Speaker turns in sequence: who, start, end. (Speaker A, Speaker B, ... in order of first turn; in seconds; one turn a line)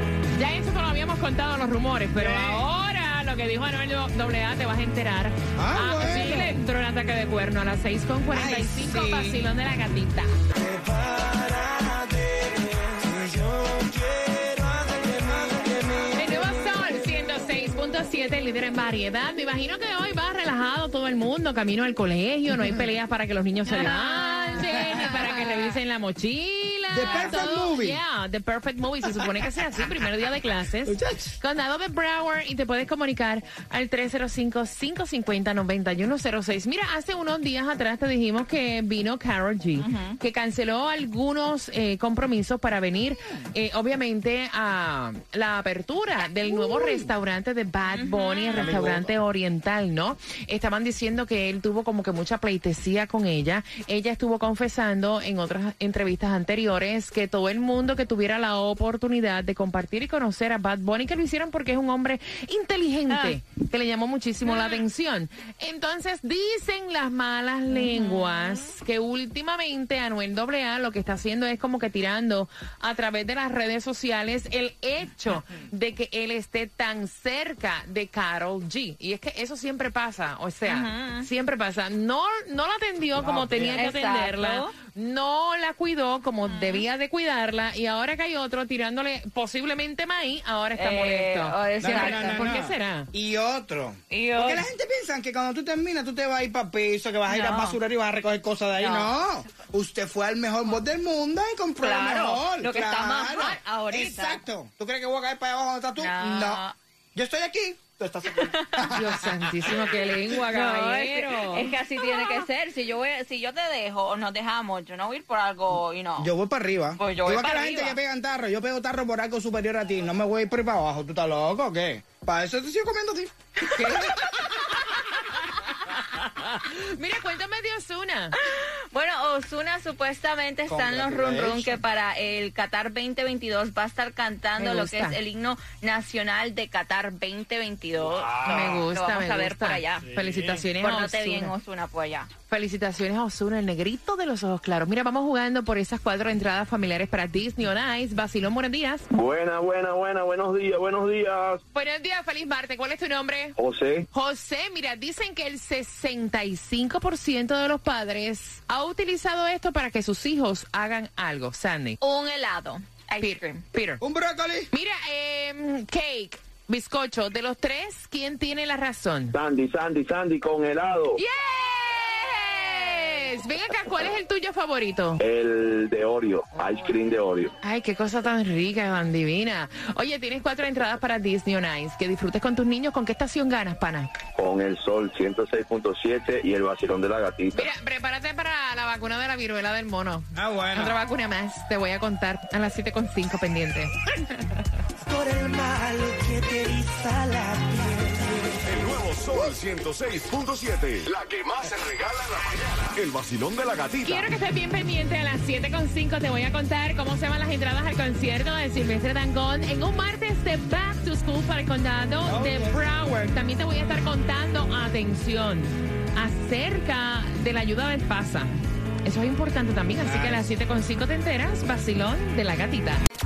Speaker A: 0.3-10.3
Speaker B: 2.2-2.6
Speaker B: 5.5-6.6
Speaker B: 8.3-9.4
Speaker B: 10.6-16.1
Speaker A: 16.1-93.1
Speaker C: 23.7-25.7
Speaker B: 26.9-28.0
Speaker C: 27.1-27.4
Speaker B: 30.9-31.4
Speaker C: 39.8-40.2
Speaker C: 47.9-48.8
Speaker B: 48.5-49.1
Speaker C: 63.1-63.4
Speaker C: 64.5-64.8
Speaker C: 67.7-68.7
Speaker C: 80.6-81.3
Speaker B: 83.2-83.9
Speaker C: 83.7-84.8
Speaker C: 86.5-86.9
Speaker C: 90.8-92.7
Speaker B: 91.8-106.6
Speaker C: 94.1-94.7
Speaker C: 97.3-97.8
Speaker C: 98.8-99.2
Speaker C: 101.8-104.4
Speaker C: 106.0-106.8
Speaker B: 107.2-110.1
Speaker C: 108.3-116.3
Speaker A: 108.9-112.4
Speaker B: 116.2-123.3
Speaker C: 117.0-118.0
Speaker A: 123.7-128.3
Speaker C: 123.8-124.8
Speaker C: 128.4-140.1
Speaker B: 130.7-131.8
Speaker A: 134.6-135.2
Speaker B: 138.4-138.8
Speaker A: 138.4-141.5
Speaker B: 140.2-140.6
Speaker C: 140.8-142.3
Speaker A: 142.5-149.1
Speaker D: 149.1-151.6
Speaker A: 151.7-153.6
Speaker D: 153.6-154.1
Speaker A: 154.1-162.0
Speaker C: 162.0-163.6
Speaker A: 163.2-164.0
Speaker B: 164.0-164.7
Speaker A: 164.7-169.4
Speaker D: 169.3-171.2
Speaker A: 171.2-175.2
Speaker D: 175.2-177.5
Speaker A: 177.6-184.1
Speaker D: 184.4-187.7
Speaker A: 187.5-194.6
Speaker B: 190.3-191.0
Speaker E: 195.0-198.6
Speaker F: 198.6-204.3
Speaker A: 204.0-218.5
Speaker B: 212.2-213.2
Speaker A: 219.0-223.0
Speaker B: 220.0-220.5